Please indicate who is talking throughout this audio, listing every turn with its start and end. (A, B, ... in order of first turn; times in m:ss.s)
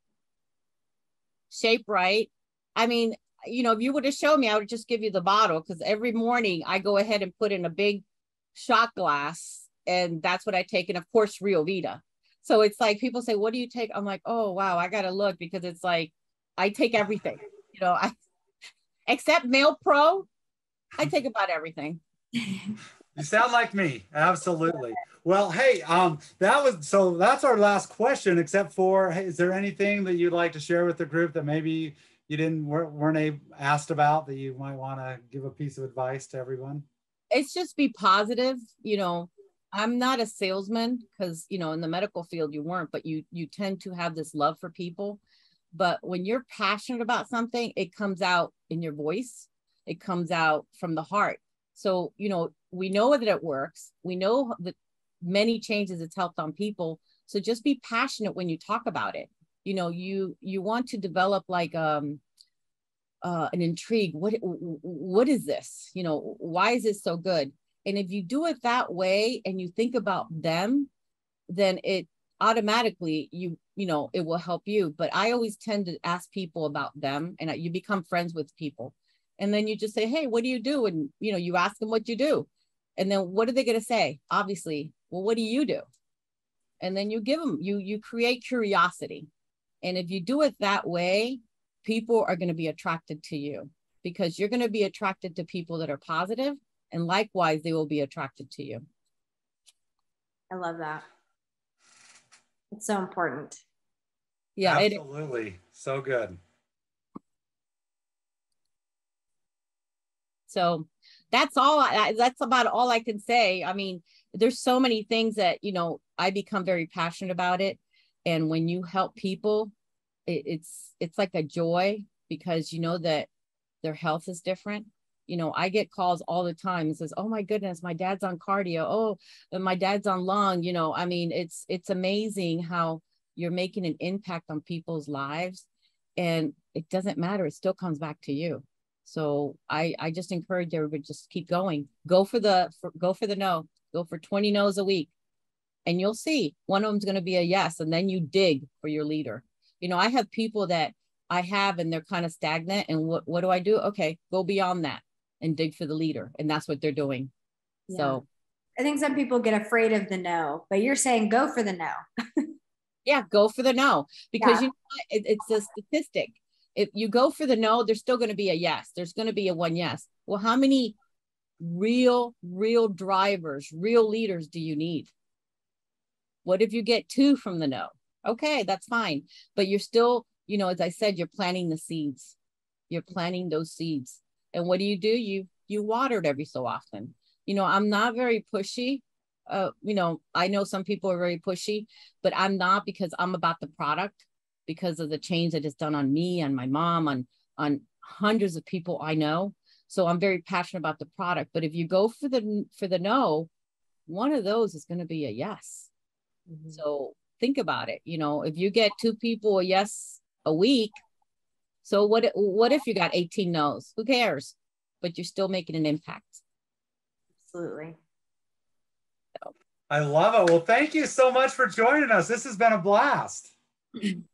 0:01.5-0:08.0 A
0:08.5-0:18.2 A
0:19.1-0:20.3 A
0:21.0-0:22.0 A
0:22.4-0:22.8 B
0:23.2-0:36.9 C
0:37.3-0:45.2 A
0:45.7-1:02.2 A
1:03.2-1:10.9 A
1:11.5-1:25.8 A
1:26.8-1:29.3 A
1:29.8-1:38.8 A
1:40.5-1:41.0 B
1:42.7-1:43.6 B
1:44.6-1:45.0 A
1:44.6-1:46.4 C
1:50.5-1:59.7 A
2:00.3-2:03.3 A
2:03.8-2:15.6 A
2:16.2-2:25.1 A
2:25.8-2:37.3 A
2:37.9-2:38.2 B
2:37.9-2:38.2 A
2:38.8-2:42.5 B
2:43.0-2:51.0 A
2:44.4-2:44.6 B
2:51.6-2:55.1 A
2:56.4-3:02.4 A
3:02.9-3:23.5 A
3:24.1-3:25.9 A
3:26.5-3:26.8 B
3:26.7-3:31.0 A
3:31.8-3:36.4 A
3:37.4-3:38.0 B
3:39.9-3:43.5 C